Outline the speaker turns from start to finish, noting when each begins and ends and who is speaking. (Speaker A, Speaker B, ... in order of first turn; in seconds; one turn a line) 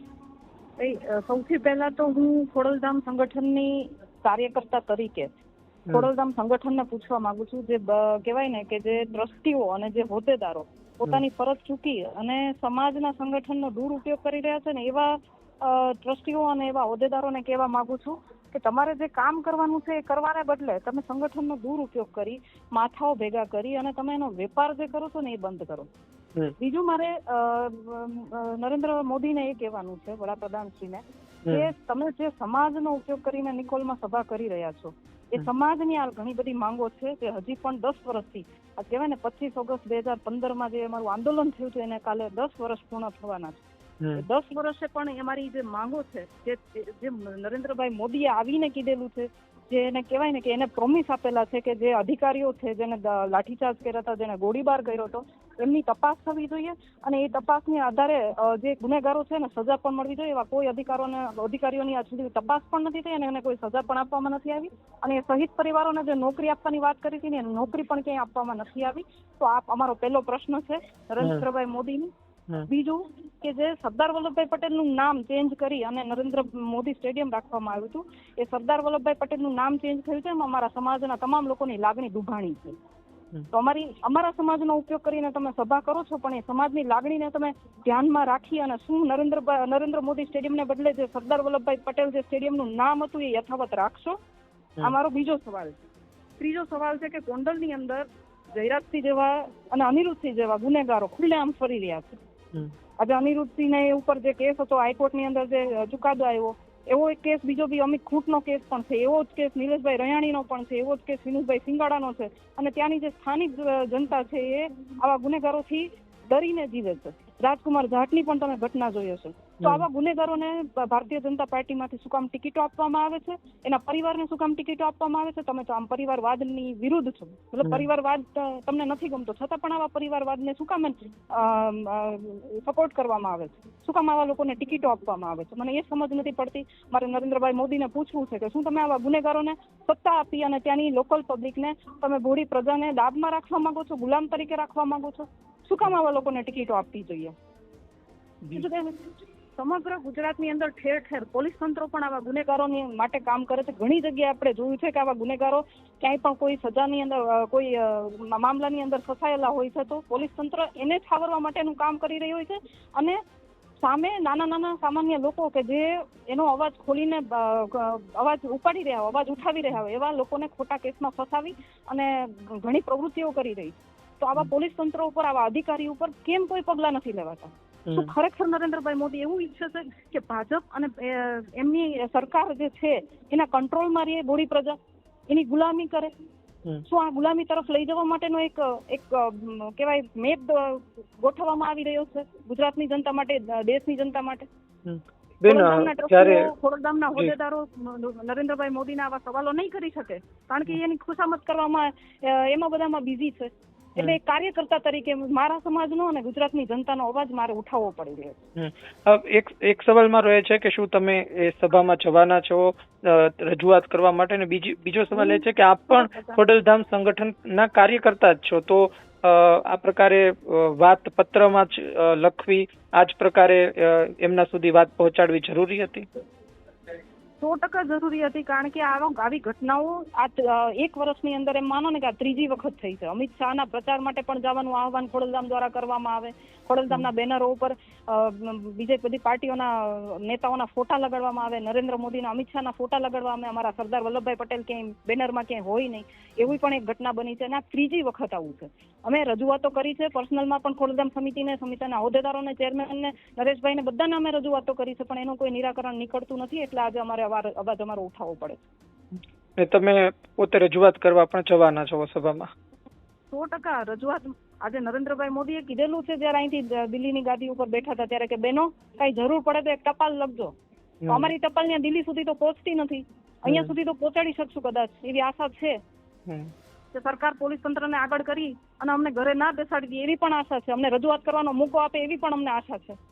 Speaker A: 0.8-5.3
Speaker A: 5.9-25.9
Speaker A: 26.6-43.6
Speaker A: 44.1-72.1
Speaker B: 71.2-71.5
Speaker A: 72.7-82.8
Speaker A: 83.5-94.2
Speaker A: 94.8-95.8
Speaker A: 96.4-102.2
Speaker A: 103.0-147.3
Speaker A: 148.5-149.0
Speaker A: 149.6-163.2
Speaker A: 163.8-184.8
Speaker B: 177.9-178.1
Speaker A: 185.3-186.1
Speaker A: 186.9-194.5
Speaker B: 194.8-196.5
Speaker A: 195.4-208.4
Speaker B: 208.6-226.1
Speaker A: 215.1-216.4
Speaker A: 227.4-258.6
Speaker B: 259.6-262.5
Speaker A: 263.3-270.5
Speaker B: 271.0-271.3
Speaker A: 271.1-275.8
Speaker B: 273.5-273.7
Speaker A: 276.9-283.0